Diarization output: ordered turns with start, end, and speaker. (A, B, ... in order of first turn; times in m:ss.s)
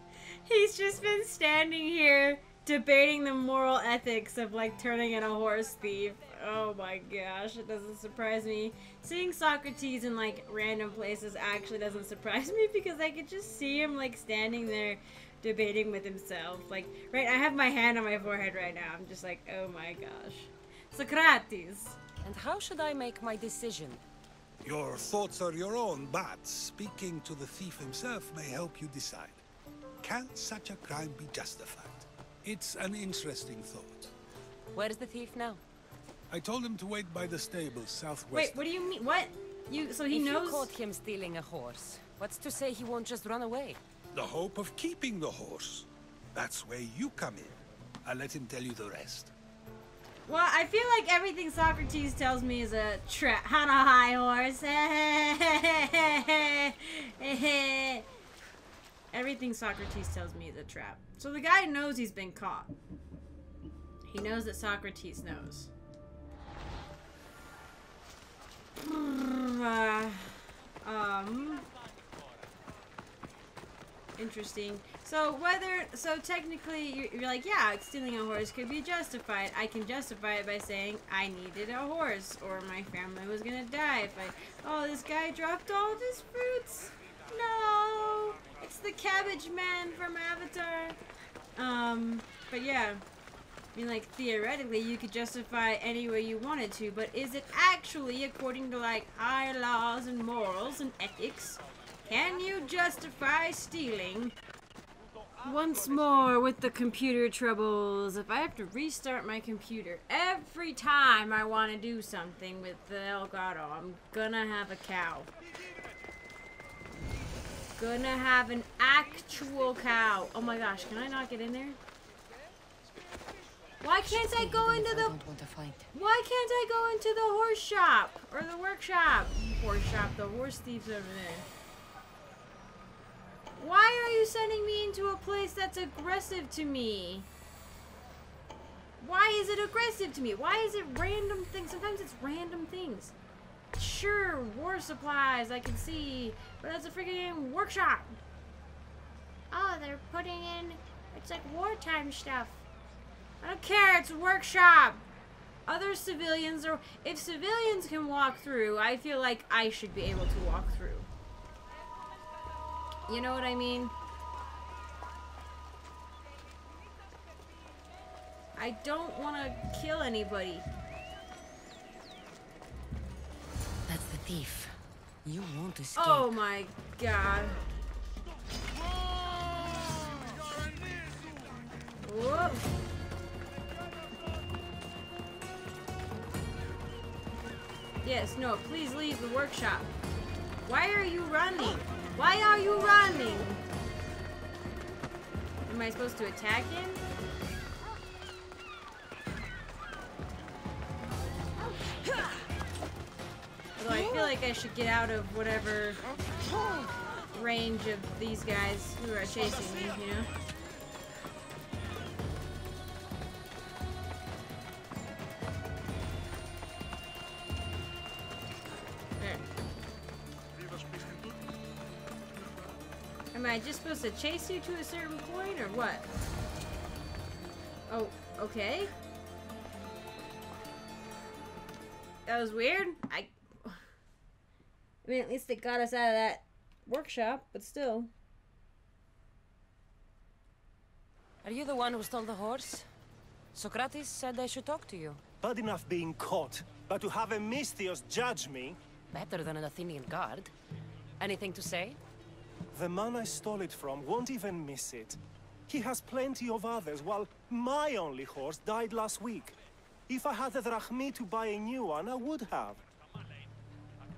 0:00.2-0:22.0 A
0:22.2-0:24.0 B
0:24.6-0:29.4 C
0:30.0-0:34.1 C
0:34.7-0:35.6 B
0:36.3-0:38.6 C
0:38.3-0:40.7 A
0:40.1-0:43.8 B
0:44.1-0:49.3 C
0:50.3-0:58.1 A
0:59.1-1:02.7 A
1:04.1-1:05.7 A
1:08.8-1:11.7 A
1:14.2-1:31.0 A
1:31.6-1:33.0 A
1:33.8-1:44.4 A
1:45.4-1:55.3 A
1:57.8-2:01.8 A
2:03.8-2:05.2 A
2:04.1-2:05.9 B
2:05.9-2:11.5 A
2:13.6-2:17.3 A
2:19.0-2:23.1 A
2:23.8-2:28.2 A
2:29.5-2:32.6 A
2:33.4-2:35.0 A
2:35.7-2:41.1 A
2:43.1-2:43.9 A
2:48.6-2:50.7 A
2:53.9-2:56.3 B
2:56.0-2:57.6 A
3:02.0-3:02.7 A
3:08.0-3:09.9 A
3:10.6-3:13.6 A
3:15.7-3:17.0 A
3:23.8-3:26.0 A
3:27.3-3:30.3 A
3:39.2-3:39.5 A
3:43.3-3:46.1 A
3:47.9-3:48.9 A
3:52.3-3:53.8 A
3:55.0-3:58.1 A
4:01.4-4:02.9 B
4:03.5-4:05.2 B
4:05.4-4:08.8 D
4:09.1-4:10.5 B
4:11.2-4:12.0 B
4:12.7-4:19.6 D
4:20.1-4:22.8 D